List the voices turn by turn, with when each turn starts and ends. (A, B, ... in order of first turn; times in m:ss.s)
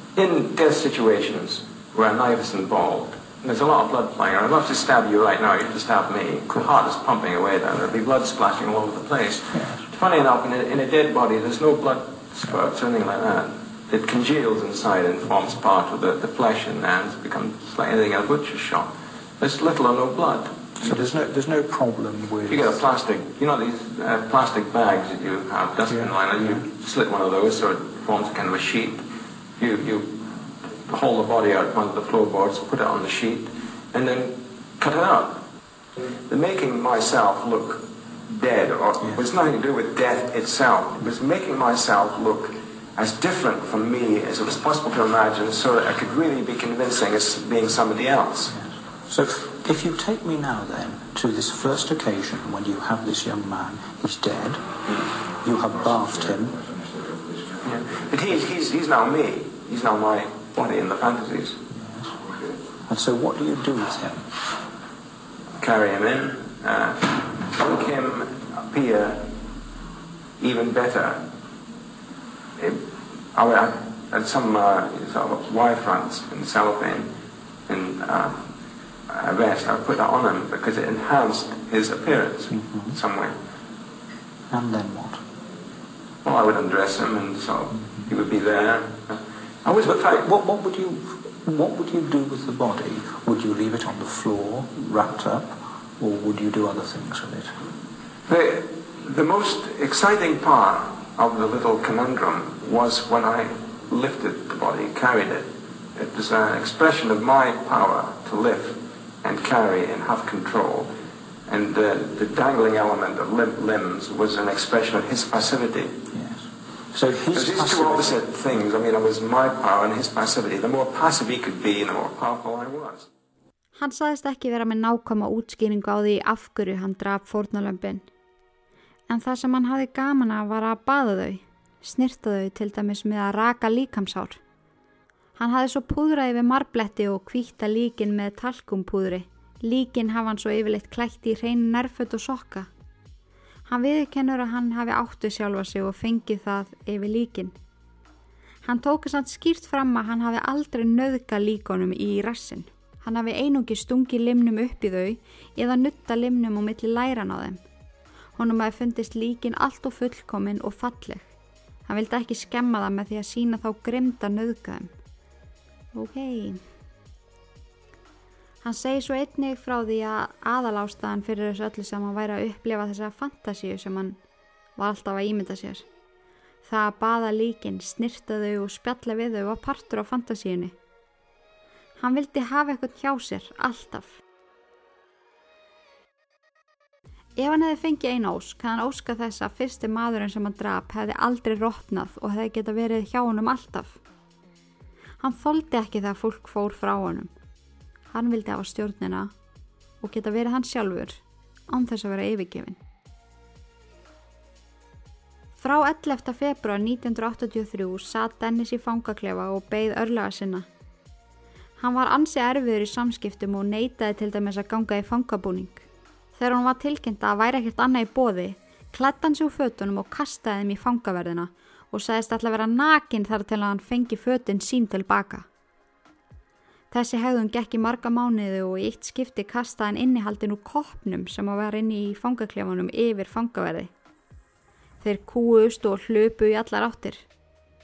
0:00.1-0:21.2 A
0:09.5-0:09.8 B
0:20.8-0:22.8 B
0:22.5-0:29.0 A
0:25.9-0:26.6 B
0:29.6-0:35.4 A
0:36.1-0:48.5 A
0:48.5-0:54.6 B
0:55.3-0:56.8 B
0:57.6-1:01.6 A
1:01.7-1:02.2 B
1:02.8-1:04.3 B
1:05.6-1:09.4 A
1:10.4-1:11.3 A
1:12.6-1:17.1 A
1:17.7-1:18.5 A
1:19.1-1:23.4 A
1:22.5-1:23.0 B
1:24.5-1:25.2 B
1:26.2-1:30.3 A
1:29.8-1:37.6 B
1:38.3-1:50.9 A
1:51.5-1:56.0 A
1:56.1-1:58.2 B
1:57.3-2:03.1 A
2:03.8-2:08.0 C
2:09.1-2:14.4 C
2:15.4-2:22.7 C
2:23.7-2:27.5 C
2:28.6-2:37.6 C
2:38.4-2:41.3 C
2:41.9-2:44.9 C
2:45.9-2:46.6 C
2:48.6-2:54.2 C
2:54.8-2:55.9 C
2:56.6-3:00.7 C
3:02.0-3:04.2 C
3:07.4-3:14.0 C
3:15.2-3:17.3 C
3:18.1-3:19.3 C
3:20.0-3:22.8 C
3:25.6-3:30.7 C
3:31.8-3:45.5 C
3:46.9-3:53.9 C
3:55.0-3:57.3 C